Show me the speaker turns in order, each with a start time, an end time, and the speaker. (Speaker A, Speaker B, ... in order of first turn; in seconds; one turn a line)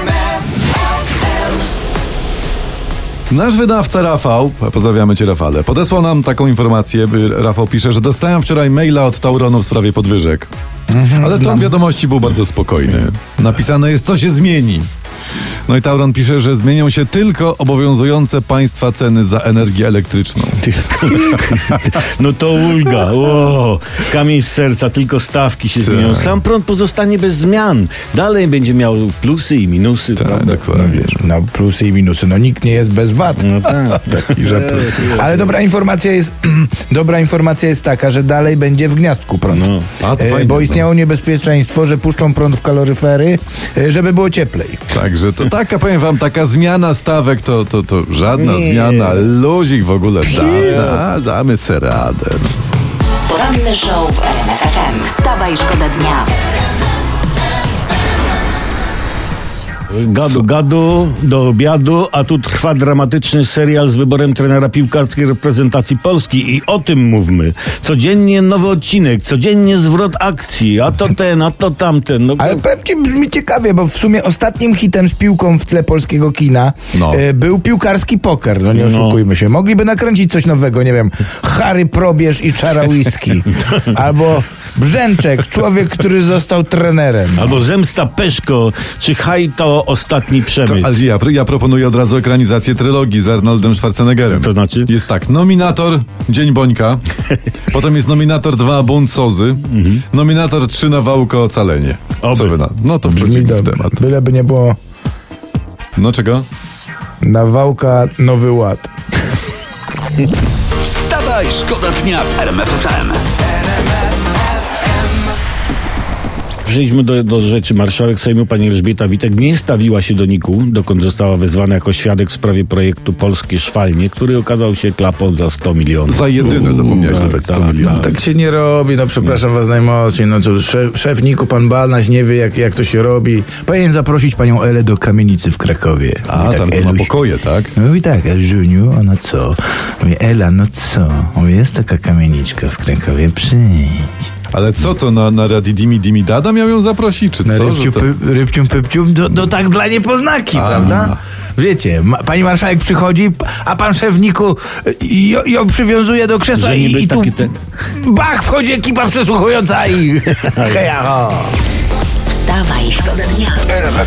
Speaker A: 3.3-10.5
Speaker B: 10.9-11.7
Speaker A: 11.2-14.9
Speaker A: 15.7-21.8
Speaker C: 20.6-30.6
Speaker A: 25.8-26.4
Speaker A: 30.1-31.2
Speaker B: 30.7-44.8
Speaker C: 33.4-35.5
Speaker C: 39.5-39.9
Speaker A: 40.0-40.9
Speaker A: 44.9-52.7
Speaker C: 48.3-49.3
Speaker C: 50.3-51.0
Speaker D: 53.3-56.3
Speaker C: 59.9-72.6
Speaker B: 72.4-87.6
Speaker A: 76.9-77.2
Speaker C: 78.7-79.2
Speaker C: 87.3-91.0
Speaker A: 90.6-97.0
Speaker C: 94.3-94.9
Speaker A: 97.7-104.0
Speaker C: 99.7-100.0
Speaker C: 102.2-102.6
Speaker B: 103.0-104.8
Speaker A: 106.0-106.4
Speaker B: 107.2-108.9
Speaker E: 110.8-113.1
Speaker C: 116.6-128.1
Speaker A: 126.1-128.1
Speaker B: 127.8-137.1
Speaker A: 136.3-137.7
Speaker B: 137.7-144.3
Speaker A: 144.5-148.0
Speaker B: 147.4-157.3
Speaker A: 150.5-151.2
Speaker C: 156.5-157.5
Speaker B: 157.9-161.5
Speaker C: 160.5-160.8
Speaker D: 162.3-163.9